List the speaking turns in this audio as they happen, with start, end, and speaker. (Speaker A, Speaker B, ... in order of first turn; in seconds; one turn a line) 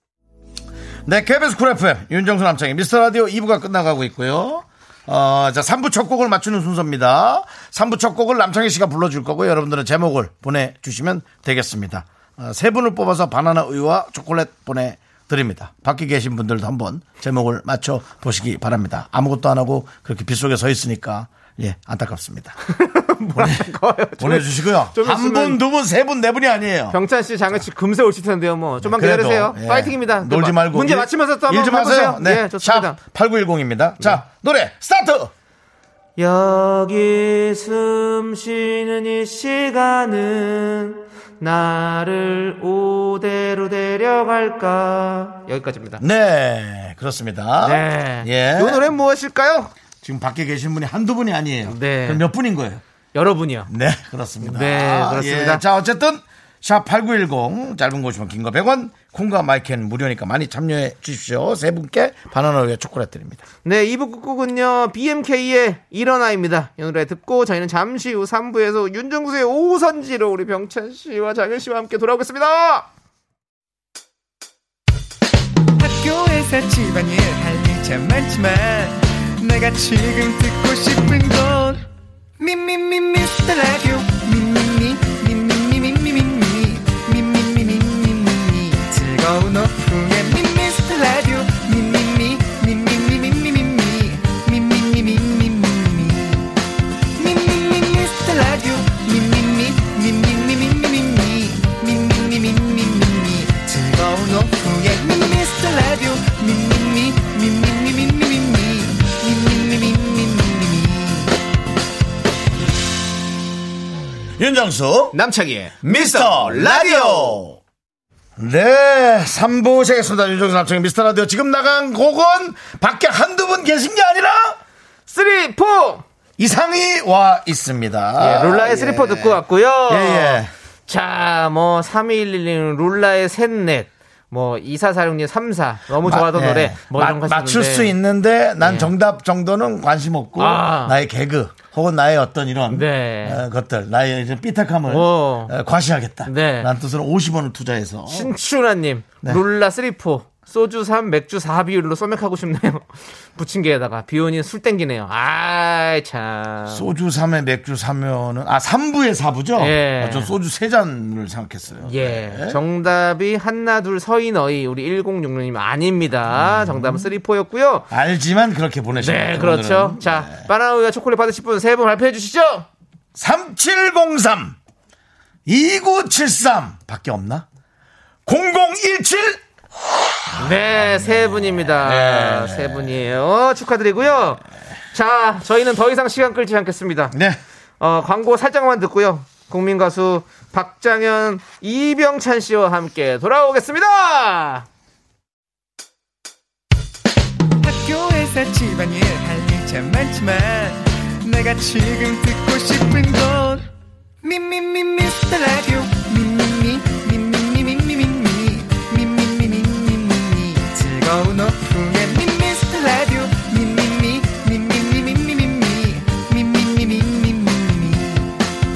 Speaker A: 1.1-22.6
Speaker B: 22.7-25.6
Speaker A: 23.4-23.6
Speaker A: 24.2-27.0
Speaker B: 26.9-33.0
Speaker A: 28.8-35.3
Speaker B: 36.2-46.0
Speaker A: 46.0-48.9
Speaker B: 47.6-49.7
Speaker A: 50.0-52.8
Speaker B: 51.7-52.2
Speaker B: 53.1-53.7
Speaker A: 53.7-63.4
Speaker B: 54.4-55.6
Speaker B: 63.6-72.9
Speaker C: 75.8-81.8
Speaker C: 82.4-96.5
Speaker C: 97.2-111.3
Speaker A: 114.4-115.2
Speaker B: 115.1-117.4
Speaker A: 115.8-117.6
Speaker A: 118.4-124.6
Speaker B: 125.1-126.0
Speaker A: 126.4-130.5
Speaker B: 128.2-137.9
Speaker A: 136.0-148.3
Speaker B: 138.6-138.9
Speaker B: 140.4-140.9
Speaker B: 142.7-143.4
Speaker B: 144.9-145.5
Speaker B: 146.2-146.7
Speaker B: 148.1-156.8
Speaker A: 156.7-162.6
Speaker B: 159.6-160.3
Speaker B: 161.8-167.9
Speaker A: 166.3-167.1
Speaker A: 167.9-170.5
Speaker B: 169.0-172.7
Speaker A: 173.1-174.6
Speaker A: 175.4-177.5
Speaker A: 178.2-179.4
Speaker B: 180.4-184.4
Speaker A: 180.4-183.0
Speaker B: 184.9-187.2
Speaker A: 187.1-187.4
Speaker B: 187.8-194.7
Speaker C: 197.6-203.7
Speaker C: 204.2-218.3